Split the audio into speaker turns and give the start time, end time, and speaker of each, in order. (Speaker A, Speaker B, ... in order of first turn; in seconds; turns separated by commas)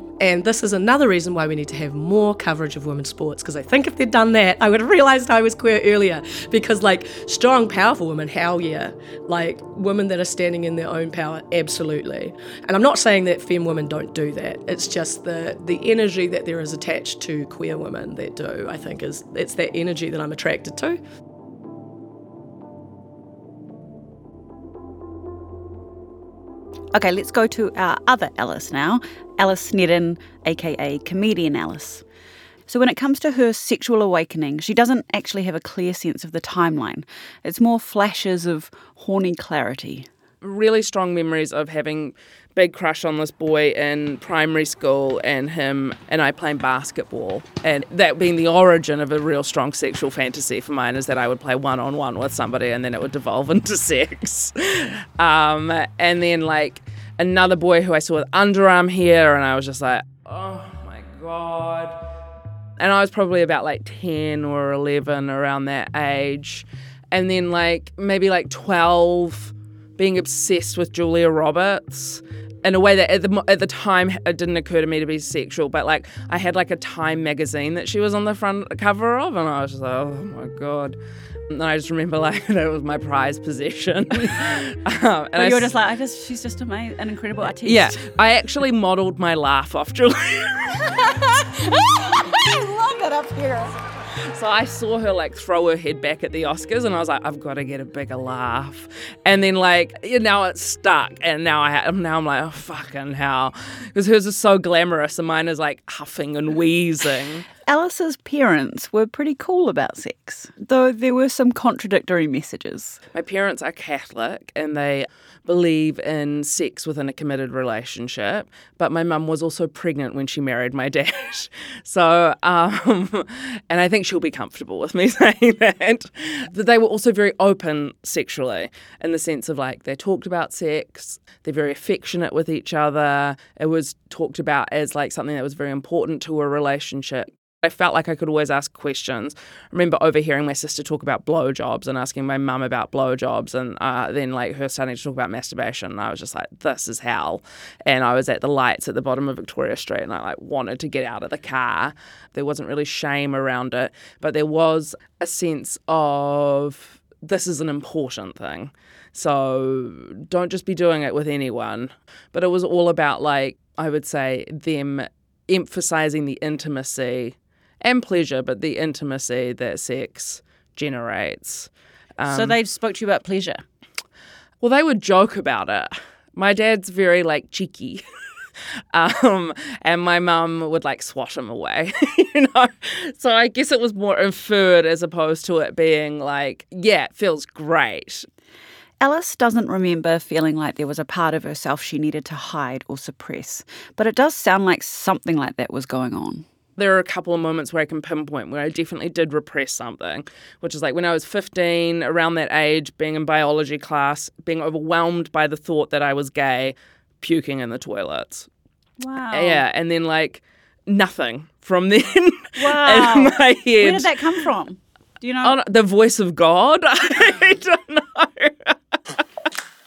Speaker A: 0.2-21.0, Speaker B: 26.9-32.0, Speaker B: 32.7-40.1, Speaker C: 40.4-62.0, Speaker C: 62.8-81.0, Speaker C: 81.5-85.7, Speaker B: 85.4-88.0, Speaker C: 87.7-90.9, Speaker B: 91.0-93.7, Speaker C: 94.3-107.5, Speaker B: 107.7-113.0, Speaker C: 113.1-172.6, Speaker B: 172.3-173.6, Speaker C: 174.6-178.0, Speaker C: 178.9-188.3, Speaker B: 189.0-196.5, Speaker C: 196.8-208.5, Speaker B: 209.0-209.6, Speaker C: 209.3-214.1, Speaker B: 212.6-215.6, Speaker C: 215.4-218.8